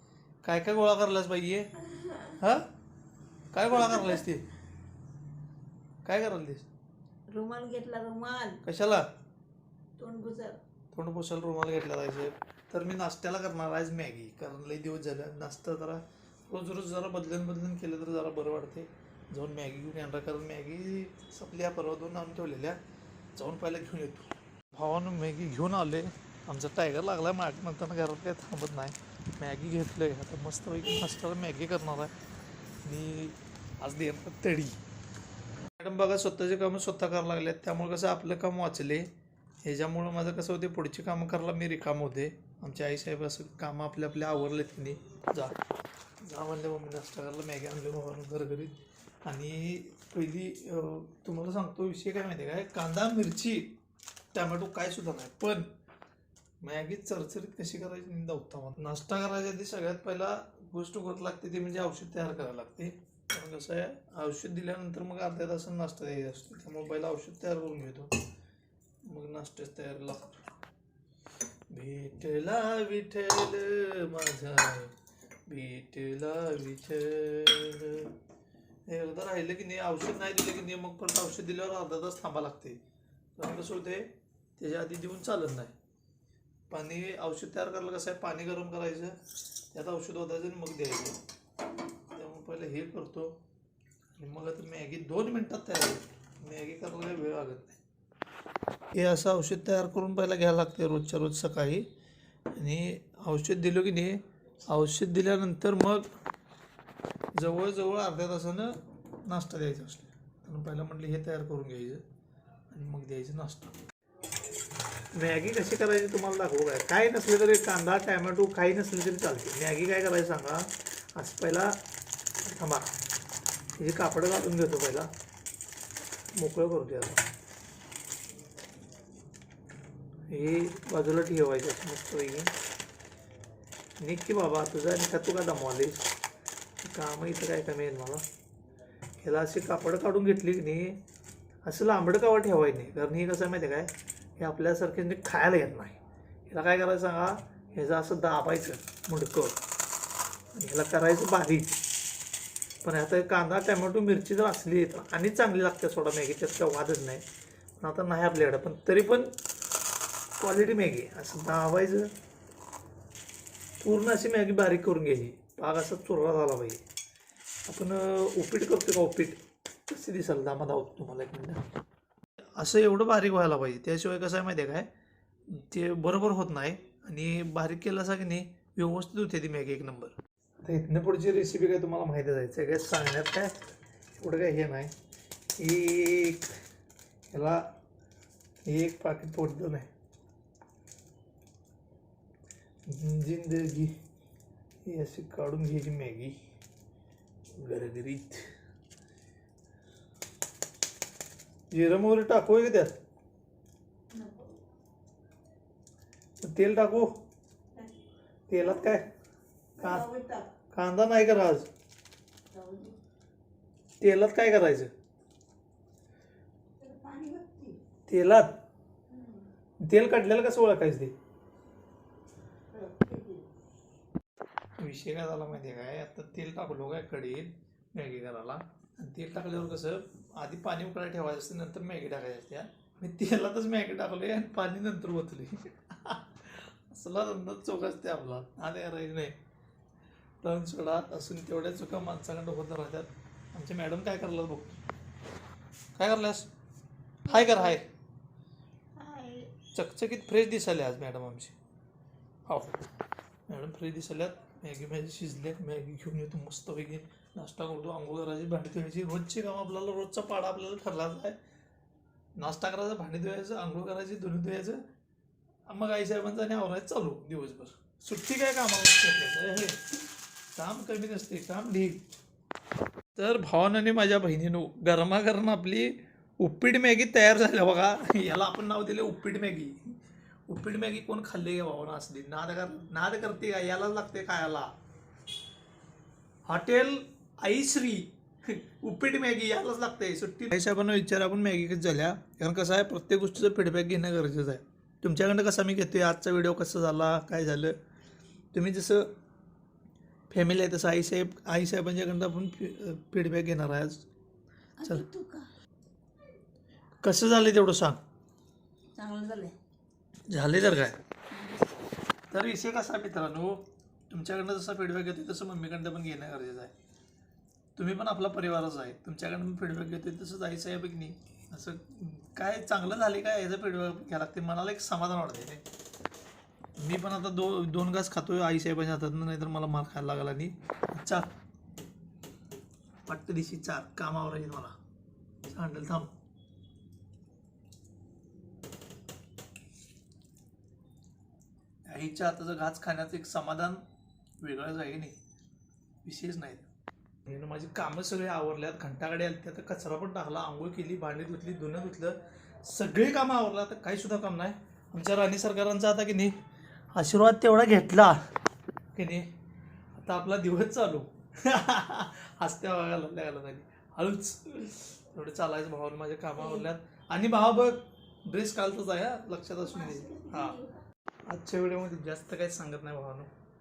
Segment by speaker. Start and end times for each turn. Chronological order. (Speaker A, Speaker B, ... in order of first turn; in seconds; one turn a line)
Speaker A: 0.4-1.8
Speaker B: 2.0-2.4
Speaker A: 2.3-2.7
Speaker A: 3.5-4.5
Speaker A: 6.0-6.7
Speaker B: 7.3-8.6
Speaker A: 8.6-9.1
Speaker B: 10.0-10.6
Speaker A: 10.9-22.8
Speaker A: 23.4-32.1
Speaker A: 32.8-34.8
Speaker A: 35.8-39.1
Speaker A: 39.6-45.6
Speaker A: 46.2-53.8
Speaker A: 54.3-55.7
Speaker A: 56.6-68.1
Speaker A: 69.1-70.4
Speaker A: 71.7-75.0
Speaker A: 75.5-78.1
Speaker A: 78.9-82.8
Speaker A: 83.4-85.7
Speaker A: 86.7-89.2
Speaker A: 89.7-91.2
Speaker A: 92.1-93.4
Speaker A: 94.2-97.8
Speaker A: 98.9-101.9
Speaker A: 102.5-106.1
Speaker A: 107.4-112.0
Speaker A: 112.7-113.8
Speaker A: 115.1-121.8
Speaker A: 122.5-122.9
Speaker A: 123.8-125.1
Speaker A: 126.3-127.3
Speaker A: 130.3-132.5
Speaker A: 134.0-136.1
Speaker A: 136.8-138.2
Speaker A: 139.2-141.0
Speaker A: 141.6-149.6
Speaker A: 150.6-151.8
Speaker A: 152.8-157.2
Speaker A: 157.8-159.3
Speaker A: 160.4-162.1
Speaker A: 163.8-166.8
Speaker A: 167.7-171.6
Speaker A: 172.6-174.9
Speaker A: 175.5-184.9
Speaker A: 185.6-186.5
Speaker A: 187.3-187.7
Speaker A: 188.7-189.9
Speaker A: 192.9-193.9
Speaker A: 194.8-196.4
Speaker A: 197.6-198.4
Speaker A: 201.7-202.9
Speaker B: 204.1-204.5
Speaker A: 206.4-207.1
Speaker A: 208.5-209.1
Speaker B: 208.6-209.0
Speaker B: 209.8-210.5
Speaker A: 209.8-210.1
Speaker A: 210.7-211.7
Speaker B: 212.5-213.0
Speaker A: 214.0-214.9
Speaker B: 216.8-217.8
Speaker A: 218.1-218.6
Speaker B: 219.1-219.5
Speaker A: 219.8-221.1
Speaker B: 222.7-223.5
Speaker A: 224.8-239.4
Speaker A: 240.4-244.8
Speaker A: 246.0-246.5
Speaker A: 247.2-247.8
Speaker B: 247.3-247.8
Speaker B: 249.0-249.5
Speaker A: 249.7-251.6
Speaker A: 252.5-252.8
Speaker A: 253.5-261.4
Speaker A: 262.4-264.8
Speaker A: 265.7-269.8
Speaker A: 270.6-272.0
Speaker A: 273.1-279.9
Speaker A: 280.5-284.7
Speaker A: 286.5-297.8
Speaker A: 298.5-299.1
Speaker A: 300.3-304.1
Speaker B: 304.8-305.5
Speaker A: 307.0-308.0
Speaker B: 308.9-309.6
Speaker A: 310.3-311.0
Speaker B: 311.3-311.7
Speaker A: 312.3-316.7
Speaker A: 317.8-325.6
Speaker A: 326.8-331.3
Speaker A: 333.1-334.8
Speaker A: 335.5-336.1
Speaker A: 341.9-343.8
Speaker A: 344.4-345.2
Speaker A: 346.1-346.7
Speaker A: 347.3-356.4
Speaker A: 356.9-358.2
Speaker A: 358.9-359.3
Speaker A: 359.9-370.6
Speaker B: 366.4-366.7
Speaker B: 369.6-370.8
Speaker A: 371.3-373.3